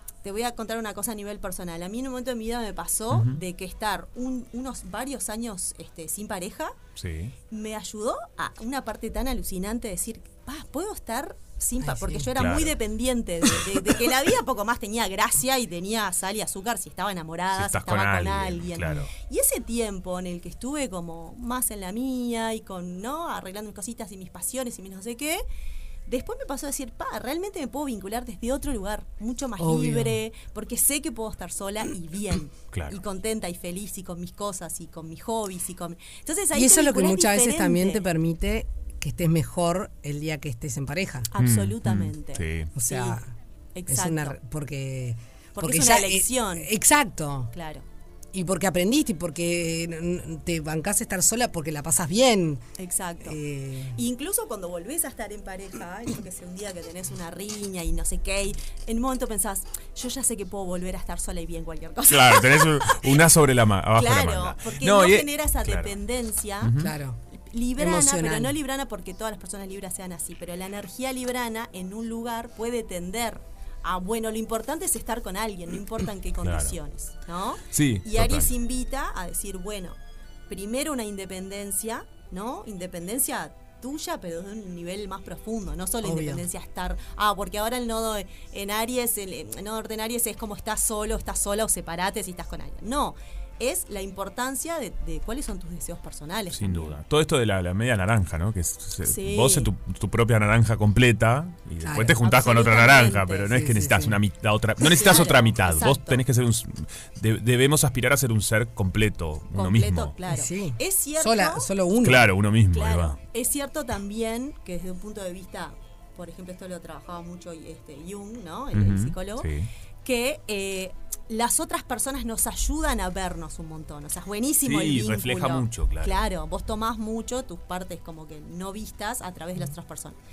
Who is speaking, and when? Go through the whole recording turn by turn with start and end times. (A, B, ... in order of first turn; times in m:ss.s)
0:00.2-0:06.8 A
0:03.1-0:03.4 B
0:07.0-0:07.3 B
0:07.5-0:25.4 A
0:11.8-0:12.3 C
0:12.3-0:12.8 B
0:17.5-0:19.1 B
0:26.1-0:38.0 A
0:29.6-0:30.2 C
0:32.7-0:33.0 B
0:36.5-0:41.3 C
0:41.3-0:43.2 A
0:41.4-0:42.7 B
0:42.7-0:43.3 C
0:43.7-0:44.4 A
0:43.9-0:47.5 C
0:45.5-0:46.7 A
0:47.5-0:47.8 A
0:48.3-0:52.6 C
0:52.8-1:03.2 A
0:53.2-0:54.0 C
1:02.1-1:05.9 B
1:03.9-1:06.7 A
1:06.6-1:06.9 B
1:06.8-1:07.2 C
1:07.3-1:20.0 A
1:07.8-1:08.6 C
1:16.4-1:16.7 B
1:17.7-1:18.5 B
1:20.5-1:37.0 A
1:26.0-1:26.4 C
1:36.5-1:50.1 B
1:39.0-1:39.7 A
1:41.8-1:42.2 C
1:42.2-1:43.5 A
1:43.5-1:44.2 C
1:44.8-1:46.2 A
1:49.5-1:51.7 A
1:50.2-1:52.3 C
1:52.0-1:53.2 B
1:52.7-1:59.5 A
1:58.7-1:59.7 B
2:00.0-2:10.2 A
2:04.6-2:06.2 B